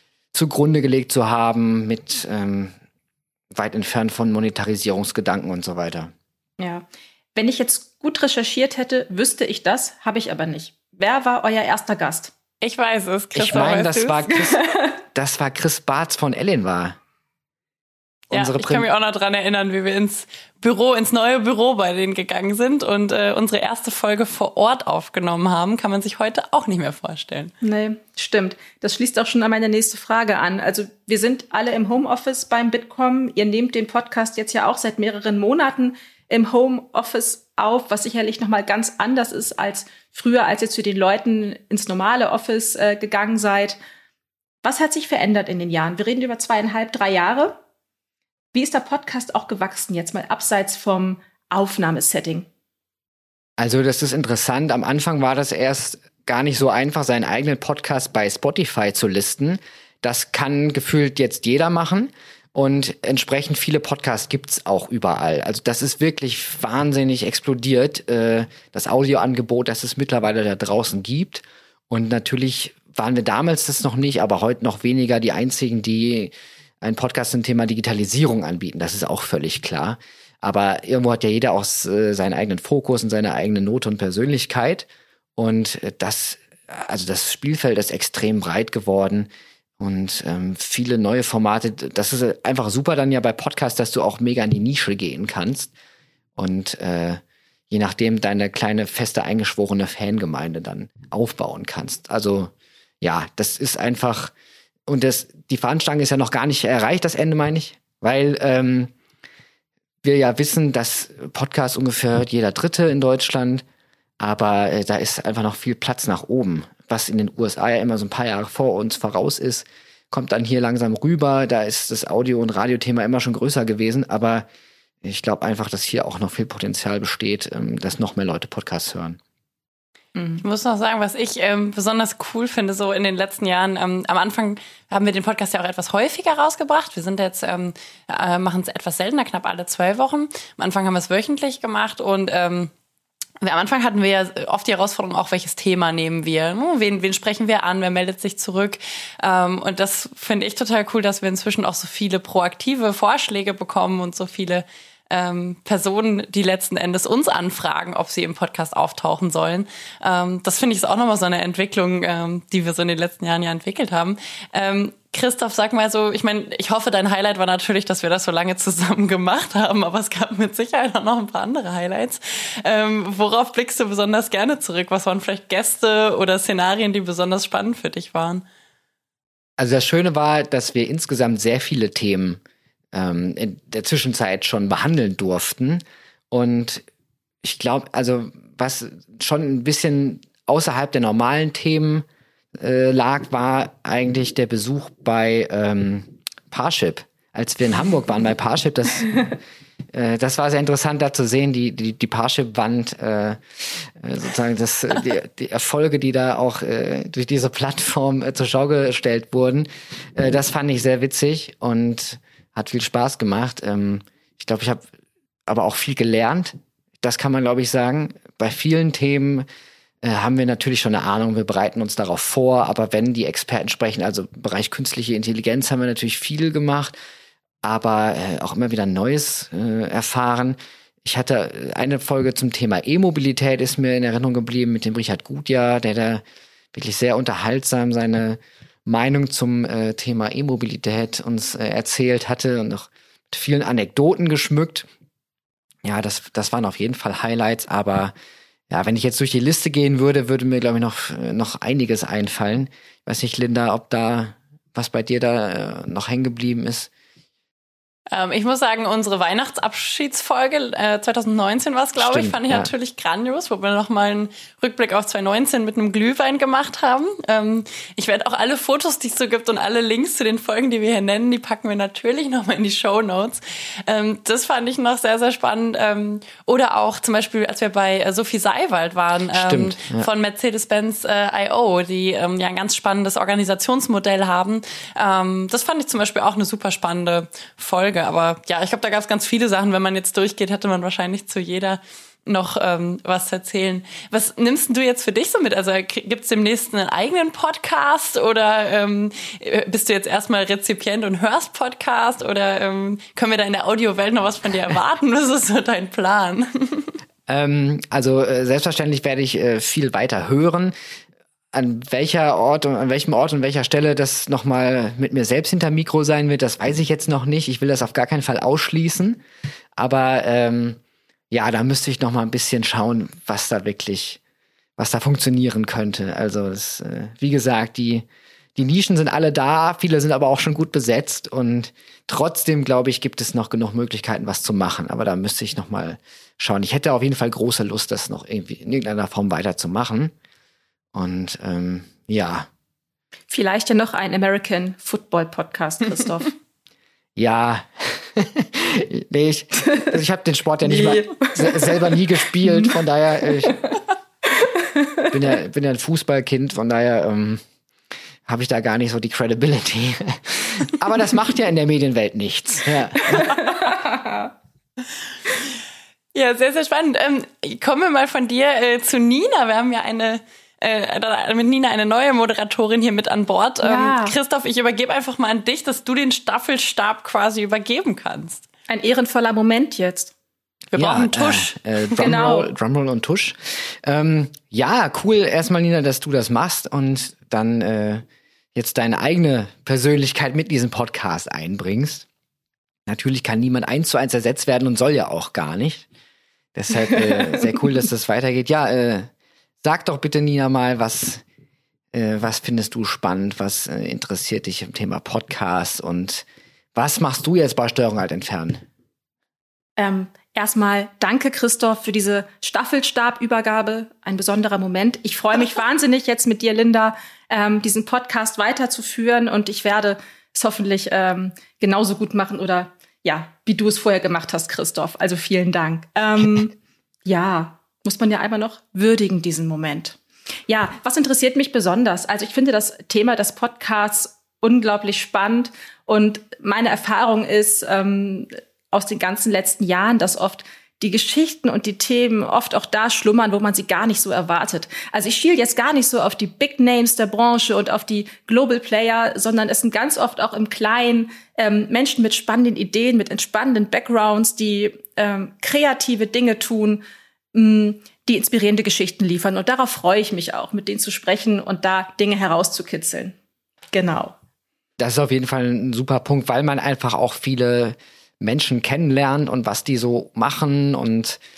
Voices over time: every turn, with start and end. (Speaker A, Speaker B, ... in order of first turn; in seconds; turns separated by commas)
Speaker A: 0.3-2.7, Speaker A: 3.5-6.1, Speaker B: 6.6-12.3, Speaker C: 12.6-14.3, Speaker A: 13.3-14.6, Speaker B: 14.6-14.9, Speaker A: 15.1-17.0, Speaker C: 18.3-27.5, Speaker A: 18.3-18.9, Speaker B: 27.6-43.8, Speaker B: 44.6-47.6, Speaker B: 48.5-52.5, Speaker A: 53.6-95.7, Speaker A: 96.4-104.3, Speaker A: 104.9-108.9, Speaker A: 110.0-113.6, Speaker A: 114.2-124.5, Speaker A: 125.0-129.2, Speaker B: 130.2-130.4, Speaker C: 130.4-142.7, Speaker C: 143.4-178.4, Speaker A: 179.6-182.4, Speaker A: 182.9-186.8, Speaker A: 187.4-192.1, Speaker A: 192.6-199.4, Speaker A: 199.9-214.8, Speaker A: 215.5-219.5, Speaker A: 220.0-227.0, Speaker A: 227.6-236.2, Speaker A: 236.7-244.9, Speaker A: 245.8-248.1, Speaker A: 248.7-256.9, Speaker C: 258.1-306.9, Speaker A: 262.0-262.7, Speaker A: 279.3-280.1, Speaker A: 307.3-310.7, Speaker A: 311.5-319.2, Speaker A: 319.8-320.8, Speaker A: 321.3-324.2, Speaker A: 324.8-340.1, Speaker A: 340.9-342.5, Speaker B: 343.3-346.4, Speaker A: 347.2-353.6, Speaker B: 350.6-351.8, Speaker B: 352.4-352.7, Speaker B: 354.8-355.0, Speaker A: 355.1-357.4, Speaker A: 358.3-363.6, Speaker B: 363.2-364.3, Speaker C: 366.1-378.4, Speaker B: 373.6-374.1, Speaker B: 378.7-380.1, Speaker C: 380.7-382.1, Speaker A: 380.8-388.0, Speaker B: 382.0-382.5, Speaker A: 388.6-392.1, Speaker A: 392.9-395.9, Speaker A: 396.6-399.1, Speaker A: 399.6-401.2, Speaker A: 401.9-408.6, Speaker B: 409.8-456.8, Speaker B: 457.3-463.1, Speaker B: 463.7-464.1, Speaker A: 464.8-471.2